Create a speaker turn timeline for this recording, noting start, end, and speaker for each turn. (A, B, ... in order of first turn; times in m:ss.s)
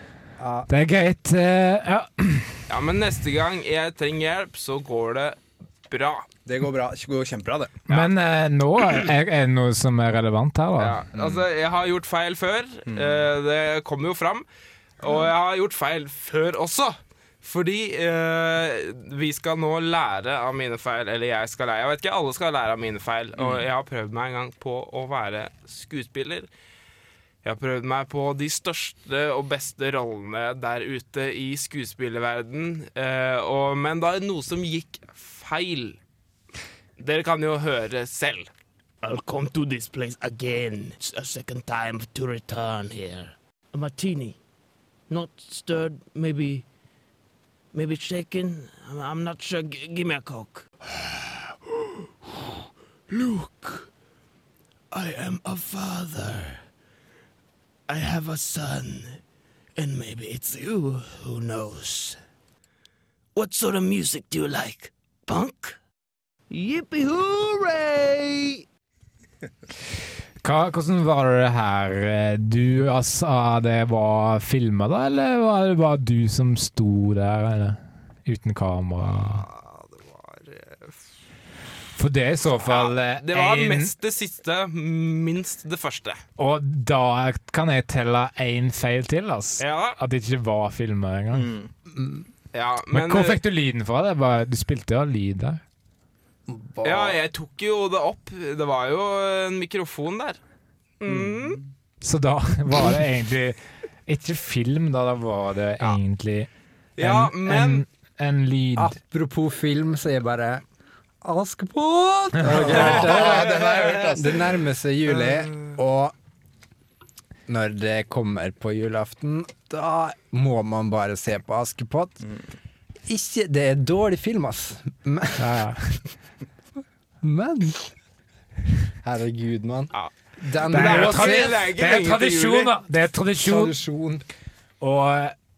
0:00.4-0:00.7 A
0:00.7-0:02.6 B
0:02.7-0:06.3 C
0:06.4-0:07.8 D
0:07.9-0:11.0 B
0:10.8-0:14.5 C
0:12.9-0:13.3 D
0:15.0-0:26.5 C
0:23.4-0:23.6 D
0:27.4-0:36.0 C
0:37.0-0:38.5 C
0:39.0-0:44.4 E
0:45.1-0:46.6 E
0:47.7-0:51.7 E
0:53.1-0:53.9 E
0:54.9-0:56.6 E
0:57.9-0:59.2 E
0:59.8-1:02.2 E
1:03.4-1:05.8 E
1:06.5-1:08.6 E
1:10.4-1:19.4 B
1:19.5-1:21.0 C
1:22.0-1:23.9 B
1:22.6-1:26.2 C
1:26.4-1:31.5 B
1:29.6-1:30.0 C
1:31.4-1:31.7 D
1:31.9-1:32.3 A
1:32.5-1:33.4 C
1:32.9-1:35.6 B
1:36.5-1:37.2 A
1:36.8-1:40.4 C
1:41.0-1:41.6 C
1:41.1-1:41.7 D
1:42.0-1:49.0 B
1:47.0-1:47.8 C
1:48.8-1:50.6 A
1:51.2-1:56.2 A
1:52.4-1:54.4 D
1:52.5-1:54.2 C
1:57.5-2:02.2 A
2:03.1-2:05.6 A
2:05.4-2:06.0 B
2:07.2-2:07.9 A
2:09.0-2:11.7 A
2:10.6-2:12.7 C
2:10.7-2:13.8 B
2:13.4-2:14.2 A
2:14.8-2:15.4 B